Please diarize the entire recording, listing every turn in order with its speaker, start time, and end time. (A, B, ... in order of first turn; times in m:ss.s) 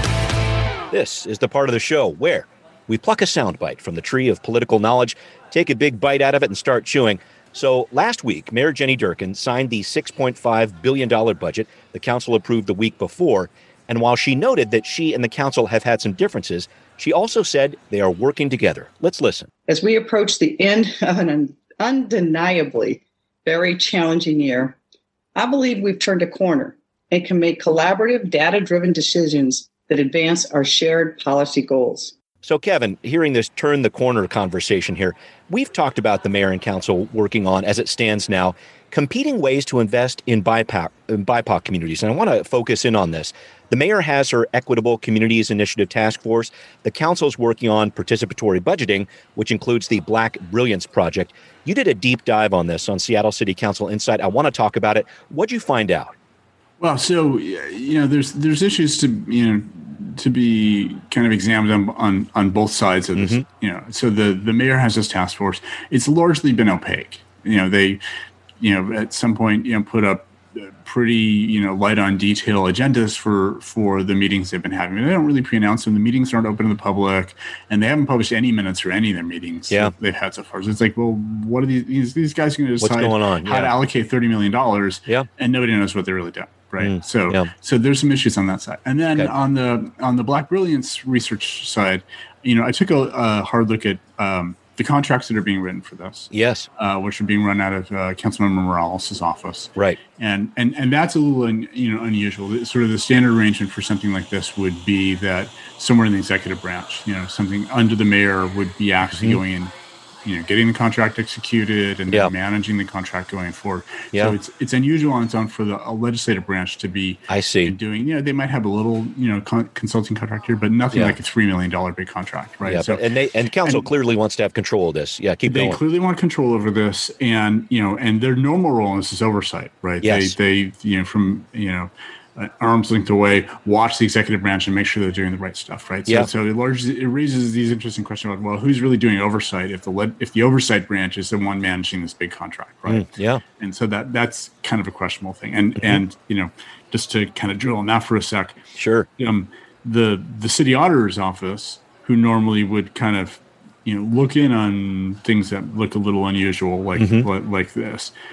0:00.9-0:19.5 A
0:19.7-0:24.8 B
0:25.4-0:32.1 B
0:32.4-0:56.2 A
0:56.8-1:08.0 C
1:03.2-1:03.4 A
1:08.6-2:03.1 C
1:22.8-1:23.7 A
1:26.8-1:27.5 A
1:36.3-1:36.7 A
1:49.1-1:49.4 A
1:57.3-1:57.8 A
2:00.9-2:01.2 A
2:02.6-2:05.8 A
2:03.6-2:03.9 C
2:05.4-2:28.6 C
2:10.0-2:10.4 A
2:22.9-2:23.4 A
2:28.7-2:29.1 A
2:29.2-2:38.1 C
2:37.0-2:37.3 A